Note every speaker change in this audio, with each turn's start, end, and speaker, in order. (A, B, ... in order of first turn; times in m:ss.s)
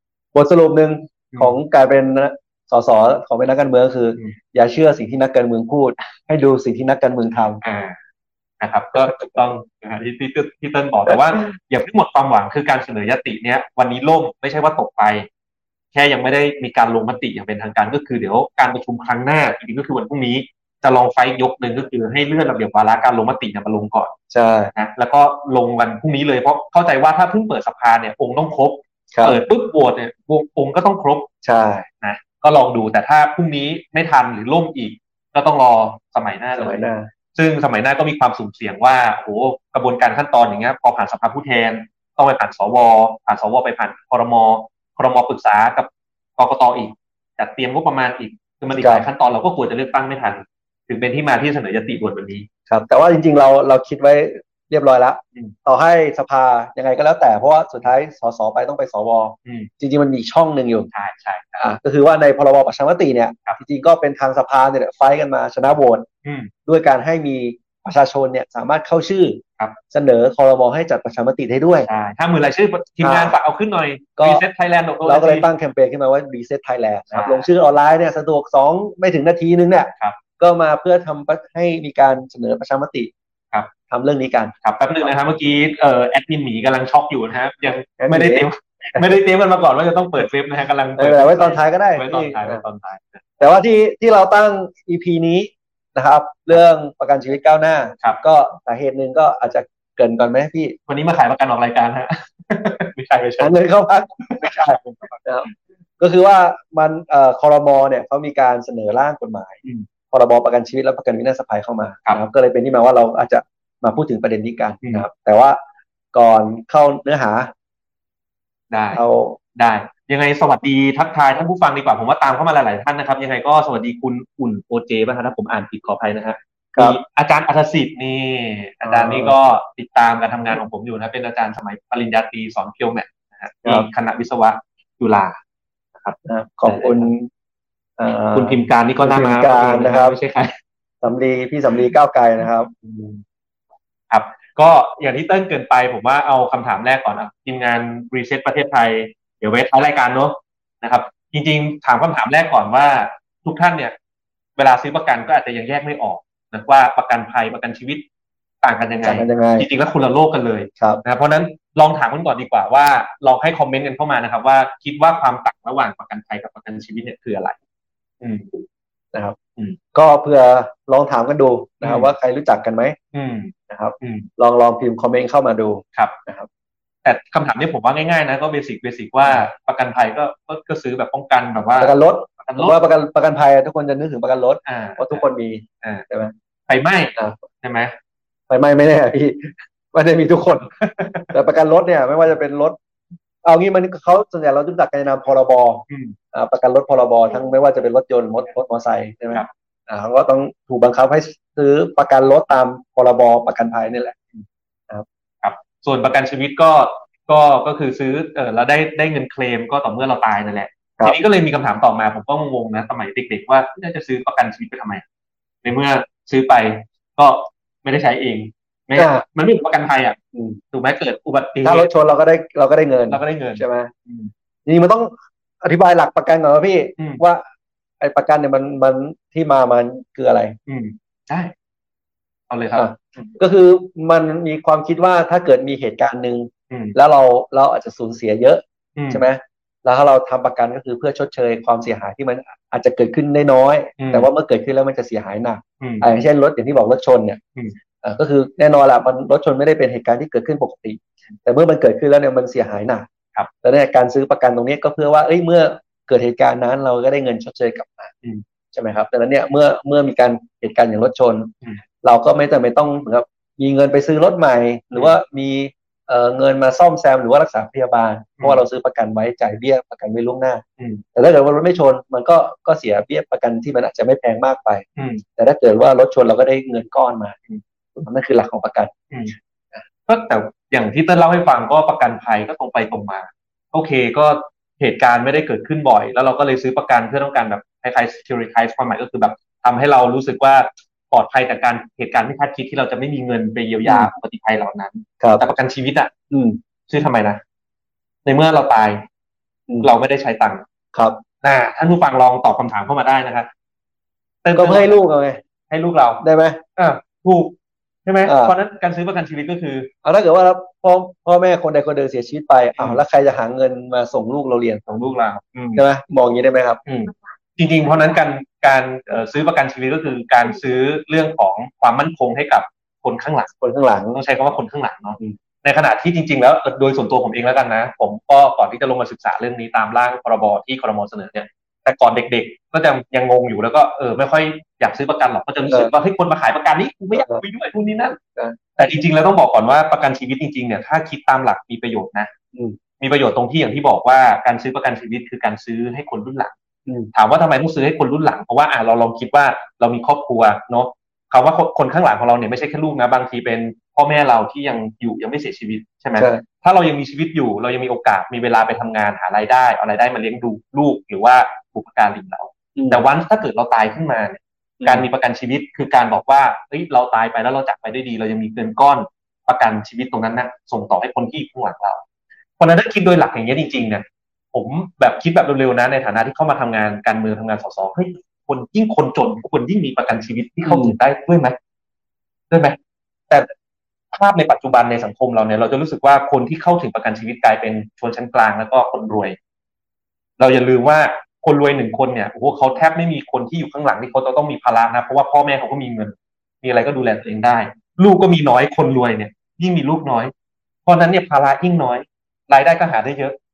0:00.3-0:07.6 A
0:07.6-0:08.0 B
0:08.6-0:15.3 B
0:09.0-0:09.4 A
0:15.9-0:24.1 B
0:24.3-0:24.7 A
0:24.8-0:31.3 B
0:29.1-0:29.4 A
0:31.4-0:31.9 A
0:32.0-0:52.5 B
0:36.6-0:37.1 A
0:48.7-0:49.0 A
0:52.7-1:00.9 A
0:59.4-0:59.7 B
1:00.9-1:01.6 B
1:01.6-1:06.1 A
1:06.2-1:06.5 B
1:06.7-1:11.9 A
1:11.8-1:15.5 B
1:13.0-1:13.4 A
1:14.2-1:14.4 A
1:15.0-1:23.1 A
1:17.1-1:17.5 B
1:23.9-1:24.5 A
1:24.6-1:33.2 B
1:28.0-1:29.1 A
1:31.0-1:32.6 A
1:33.4-1:40.8 A
1:40.9-1:43.5 B
1:43.4-1:49.6 A
1:44.3-1:45.2 B
1:50.1-1:55.6 A
1:56.1-1:57.5 A
1:58.7-1:59.0 B
1:58.9-1:59.4 A
1:59.6-2:15.4 B
2:08.8-2:09.4 A
2:16.0-2:17.1 B
2:16.2-2:17.3 A
2:18.0-2:20.2 A
2:18.3-2:20.6 B
2:21.0-2:22.7 A
2:22.8-2:23.2 B
2:24.1-2:34.0 B
2:34.6-2:38.0 B
2:38.6-2:47.6 B
2:39.0-2:39.7 A
2:48.2-2:48.6 B
2:49.9-2:53.0 A
2:51.8-2:52.1 B
2:53.1-2:54.3 B
2:53.7-2:56.5 A
2:57.0-3:02.8 B
3:01.8-3:06.3 A
3:04.7-3:05.3 B
3:06.7-3:08.0 B
3:07.2-3:07.4 A
3:08.5-3:10.8 A
3:10.8-3:11.3 B
3:11.3-3:12.8 A
3:13.4-3:24.2 A
3:15.9-3:16.2 B
3:25.4-3:35.0 B
3:35.6-3:40.2 B
3:39.0-3:39.2 A
3:40.3-3:40.6 A
3:40.7-3:41.9 B
3:41.6-3:43.9 A
3:43.1-3:44.3 B
3:44.7-3:47.4 A
3:48.0-3:50.6 A
3:50.7-3:51.5 B
3:52.5-3:53.3 B
3:52.7-4:07.4 A
3:56.7-3:57.0 B
3:59.0-3:59.2 B
4:04.0-4:04.3 B
4:05.8-4:06.1 B
4:08.0-4:13.1 A
4:13.6-4:18.1 A
4:18.7-4:21.5 A
4:22.0-4:30.6 A
4:31.1-4:34.8 A
4:35.0-4:35.2 B
4:35.4-4:37.4 A
4:38.0-4:38.9 A
4:40.1-4:56.1 B
4:53.8-4:54.1 A
4:56.3-4:56.6 A
4:56.9-4:57.4 B
4:58.2-4:59.0 B
4:59.8-5:00.6 B
5:00.9-5:01.2 A
5:01.4-5:03.5 B
5:04.4-5:05.0 B
5:04.6-5:05.4 A
5:05.7-5:06.2 B
5:06.2-5:06.6 A
5:06.8-5:09.9 B
5:08.2-5:08.6 A
5:10.0-5:14.9 A
5:14.9-5:15.8 B
5:15.8-5:16.8 A
5:16.9-5:23.5 B
5:23.6-5:24.2 A
5:24.1-5:38.2 B
5:35.7-5:35.9 A
5:37.2-5:37.4 A
5:38.8-5:42.3 B
5:43.0-5:46.5 B
5:47.1-6:12.0 B
5:56.2-5:56.4 A
6:02.8-6:03.0 A
6:04.8-6:05.1 A
6:12.6-6:21.6 B
6:20.7-6:21.0 A
6:22.5-6:22.8 B
6:24.1-6:29.4 B
6:30.4-6:40.3 B
6:40.9-6:43.4 B